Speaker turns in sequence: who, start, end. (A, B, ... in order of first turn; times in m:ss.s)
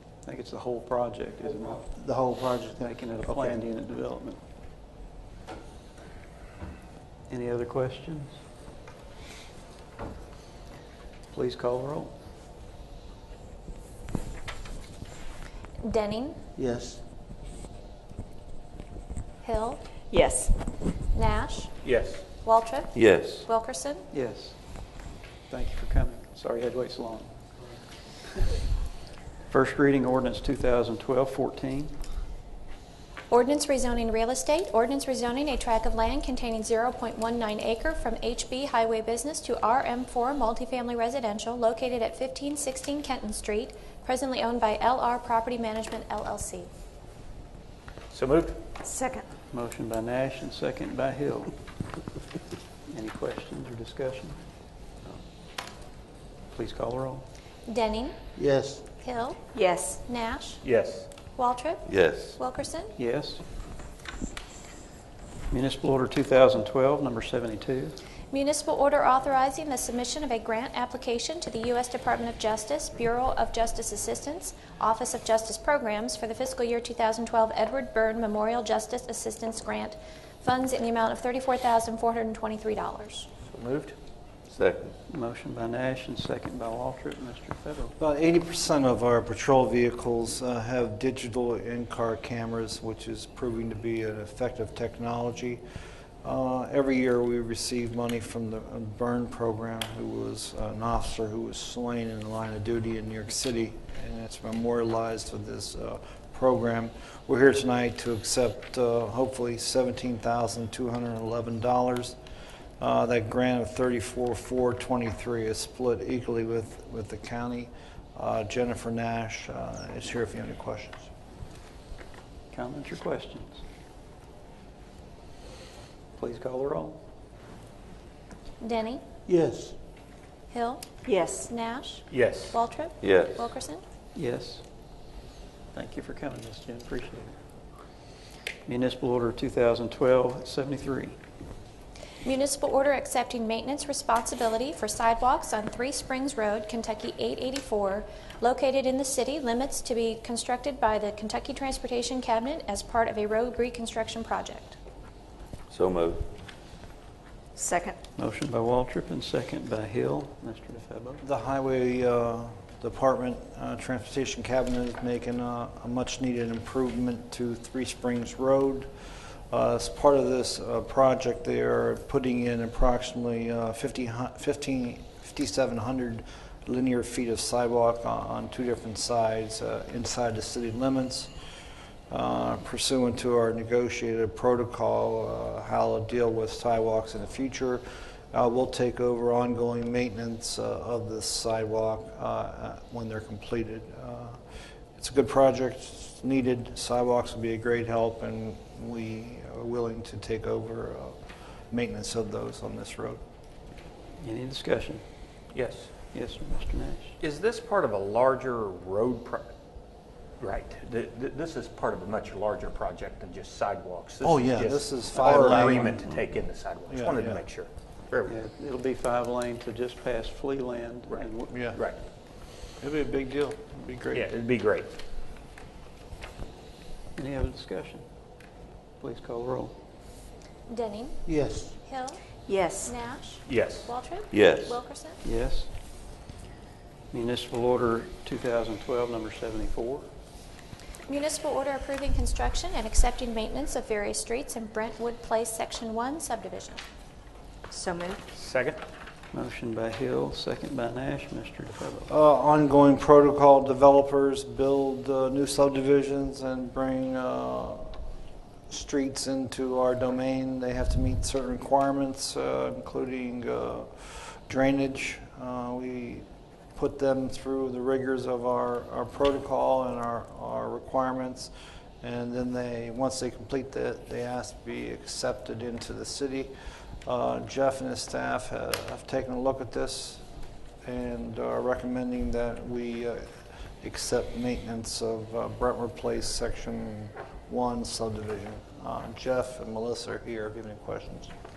0:00.2-0:01.9 A
0:02.0-0:03.6 B
0:02.8-0:04.4 A
0:07.3-0:08.4 A
0:11.3-0:12.1 A
0:15.8-0:16.4 C
0:16.6-0:17.0 B
0:19.4-0:19.8 C
0:20.1-0:20.5 D
0:21.1-0:21.7 C
0:21.8-0:22.2 E
0:22.4-0:24.0 C
0:22.9-0:23.4 F
0:24.1-0:24.6 A
0:25.5-0:27.3 A
0:29.5-0:31.9 A
0:33.3-0:46.7 C
0:48.1-0:48.6 E
0:48.8-0:49.3 D
0:49.5-0:51.5 A
0:52.9-0:54.4 A
0:56.5-0:57.2 A
0:57.7-0:58.2 C
0:58.4-0:58.8 B
0:59.0-1:00.6 C
0:59.5-1:00.0 D
1:00.6-1:01.1 E
1:01.4-1:02.9 C
1:01.9-1:02.4 F
1:03.0-1:03.4 A
1:05.5-1:08.0 A
1:08.3-1:23.3 C
1:23.4-1:23.9 E
1:24.5-1:24.9 F
1:25.1-1:27.9 A
1:28.0-1:35.6 G
1:36.2-1:52.2 G
1:52.8-2:01.1 G
2:02.5-2:03.6 A
2:06.2-2:07.0 A
2:08.6-2:09.0 C
2:09.3-2:09.7 B
2:10.5-2:13.8 C
2:11.0-2:11.5 D
2:12.1-2:12.6 E
2:13.0-2:13.5 F
2:14.1-2:14.6 A
2:15.7-2:17.4 A
2:18.6-2:21.2 A
2:22.2-2:34.8 C
2:35.7-2:36.2 F
2:37.6-2:38.0 D
2:38.2-2:41.2 A
2:41.2-2:48.9 G
2:49.5-3:01.3 G
3:02.1-3:14.4 G
3:15.0-3:21.2 G
3:21.7-3:23.2 G
3:24.2-3:25.0 A
3:25.5-3:25.9 E
3:26.1-3:27.1 A
3:27.2-3:29.5 E
3:30.4-3:38.3 E
3:34.2-3:36.0 G
3:36.9-3:37.4 G
3:38.2-3:41.5 A
3:41.1-3:42.0 E
3:41.5-3:41.8 G
3:42.8-3:44.3 G
3:44.1-3:44.9 E
3:47.1-3:48.0 A
3:49.0-3:49.7 A
3:50.7-3:51.3 C
3:51.3-3:51.7 B
3:51.8-3:52.2 C
3:52.5-3:52.9 D
3:52.7-3:55.2 C
3:53.4-3:53.9 E
3:54.3-3:54.8 F
3:55.2-3:55.7 A
3:57.1-4:00.0 A
4:01.1-4:06.8 C
4:07.7-4:08.2 D
4:08.3-4:08.8 E
4:09.3-4:12.1 A
4:12.1-4:18.0 G
4:18.7-4:26.2 G
4:26.8-4:36.5 G
4:37.0-4:40.2 G
4:40.8-4:43.3 G
4:43.8-4:51.3 G